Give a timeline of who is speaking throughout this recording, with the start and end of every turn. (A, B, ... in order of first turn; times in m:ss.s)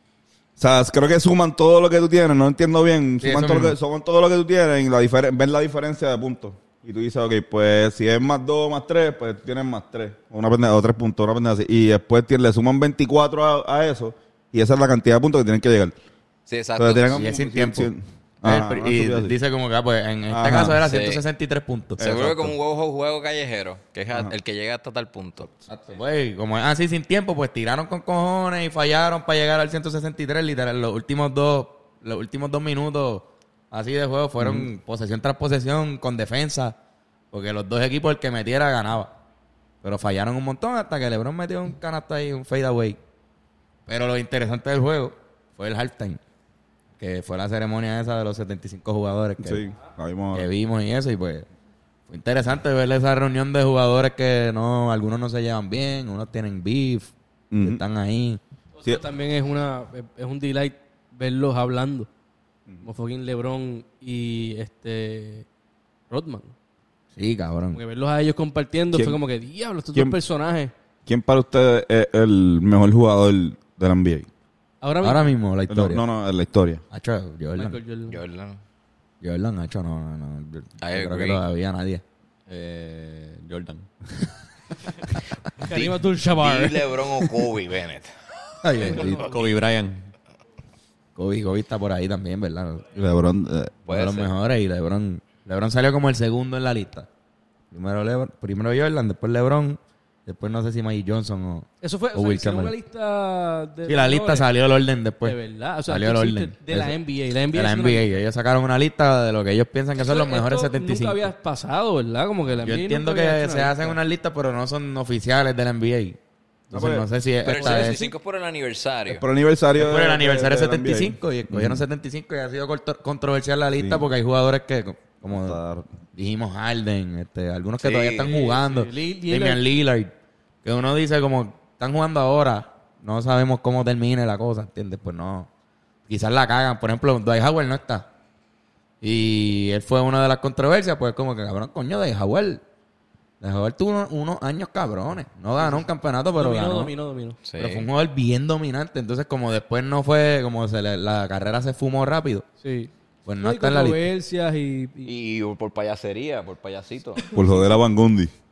0:00.6-0:15.9 A
0:03.2-0:03.8 B
0:16.5-0:17.2 C
0:16.8-0:19.3 A
0:17.1-0:17.9 B
0:18.4-0:22.0 B
0:20.3-0:20.9 A
0:20.8-0:21.2 C
0:22.0-0:22.6 A
0:22.0-0:25.5 C
0:25.7-0:36.8 B
0:34.4-0:34.7 A
0:37.3-0:39.1 B
0:39.8-0:43.0 B
0:43.9-0:46.2 B
0:47.0-0:49.6 B
0:49.4-0:50.5 A
0:50.3-0:51.5 B
0:52.1-0:58.4 B
0:57.5-0:57.8 A
0:58.8-1:02.1 D
1:02.8-1:05.4 D
1:06.1-1:06.5 D
1:07.2-1:07.8 B
1:07.7-1:10.7 D
1:08.9-1:09.2 A
1:11.0-1:14.3 A
1:14.8-1:15.3 D
1:15.0-1:16.0 B
1:15.7-1:16.8 A
1:16.9-1:17.8 B
1:17.6-1:18.2 D
1:18.1-1:18.6 C
1:19.2-1:22.0 B
1:20.8-1:21.4 C
1:22.5-1:23.9 E
1:25.6-1:26.9 D
1:25.6-1:28.1 C
1:28.6-1:29.3 B
1:28.8-1:29.4 D
1:28.8-1:30.1 E
1:31.1-1:32.8 B
1:32.9-1:33.8 A
1:33.9-1:34.3 C
1:33.9-1:37.1 B
1:37.7-1:42.7 B
1:41.8-1:44.5 D
1:43.8-1:47.0 B
1:45.2-1:48.1 D
1:47.5-1:51.3 B
1:50.0-1:54.0 D
1:52.6-1:56.2 B
1:56.7-1:58.1 B
1:56.7-1:57.0 A
1:57.4-1:59.2 C
1:57.5-1:58.1 D
1:59.1-2:01.8 A
1:59.7-2:05.6 B
2:03.8-2:04.1 A
2:05.2-2:05.9 A
2:06.1-2:10.1 B
2:07.8-2:08.4 C
2:08.3-2:09.6 D
2:10.6-2:15.5 B
2:16.1-2:18.1 B
2:19.0-2:22.6 B
2:23.4-2:26.9 B
2:25.6-2:27.4 D
2:27.4-2:27.9 C
2:27.6-2:32.4 B
2:32.6-2:35.1 D
2:33.2-2:34.0 B
2:35.0-2:37.2 C
2:37.3-2:38.3 A
2:37.3-2:37.7 D